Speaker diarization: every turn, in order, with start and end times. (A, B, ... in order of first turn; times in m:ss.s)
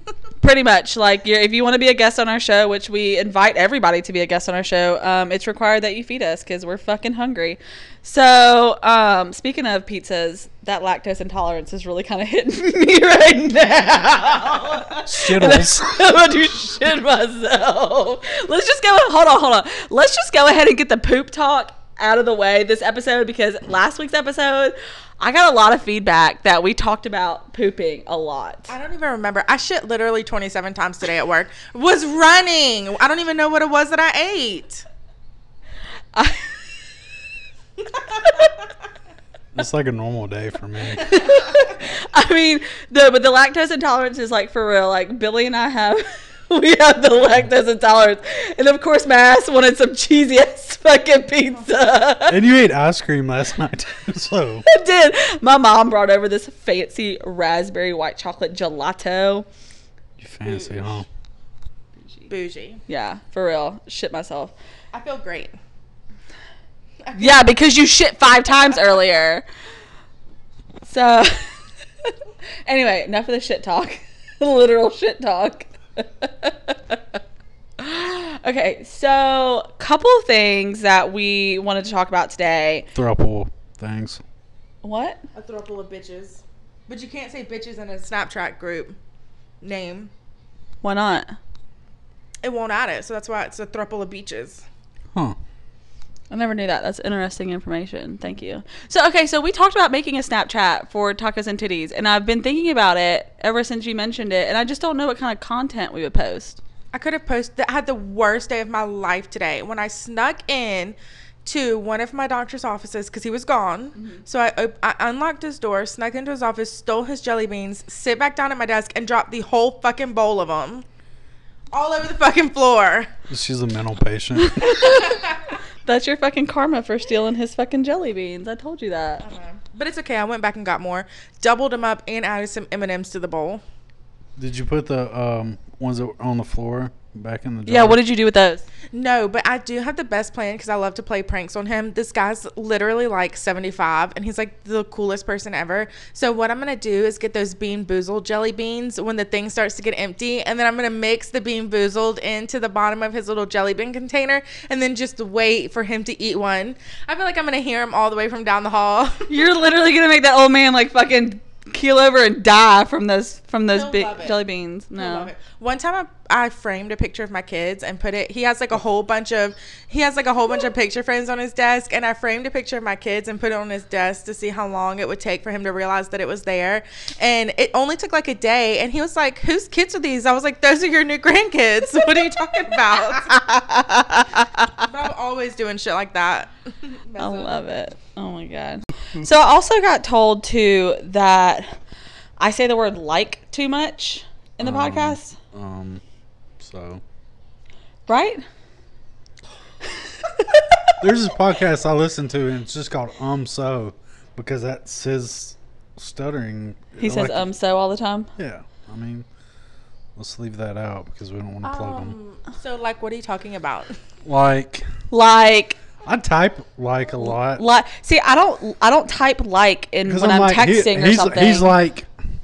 0:00.4-0:28.7 A
0:15.0-0:16.0 B
0:28.7-0:34.8 C
0:36.1-0:36.5 A
0:38.2-0:38.5 C
0:39.5-0:41.1 B
0:41.0-0:52.4 A
0:52.3-0:54.6 B
0:54.6-0:59.5 A
1:00.2-1:01.0 B
1:00.4-1:01.0 C
1:02.3-1:02.8 C
1:02.9-1:04.5 A
1:04.9-1:05.6 C
1:07.0-1:07.4 C
1:07.1-1:09.4 A
1:10.8-1:11.4 A
1:12.6-1:17.2 A
1:17.8-1:22.9 A
1:22.9-1:24.2 B
1:24.8-1:25.2 A
1:25.3-1:29.0 C
1:29.6-1:30.1 C
1:30.8-1:31.4 A
1:32.4-1:34.6 C
1:36.3-1:46.6 A
1:46.9-2:00.8 C
2:01.7-2:03.1 C
2:03.3-2:04.9 B
2:04.4-2:09.2 A
2:05.1-2:05.4 C
2:09.2-2:13.6 C
2:14.4-2:18.0 B
2:17.6-2:18.6 A
2:18.9-2:39.3 C
2:39.3-2:45.3 A
2:43.7-2:44.4 C
2:45.0-3:03.4 C
3:03.2-3:04.8 A
3:04.7-3:07.7 C
3:07.2-3:11.7 A
3:12.4-3:15.4 A
3:14.6-3:16.0 B
3:16.6-3:17.0 B
3:18.1-3:18.4 A
3:20.2-3:20.9 A
3:21.0-3:27.5 B
3:27.0-3:28.3 A
3:28.4-3:29.2 B
3:30.2-3:32.2 B
3:31.6-3:34.0 C
3:34.2-3:34.8 B
3:35.1-3:35.8 A
3:36.0-3:37.6 B
3:37.2-3:41.7 A
3:40.0-3:42.1 B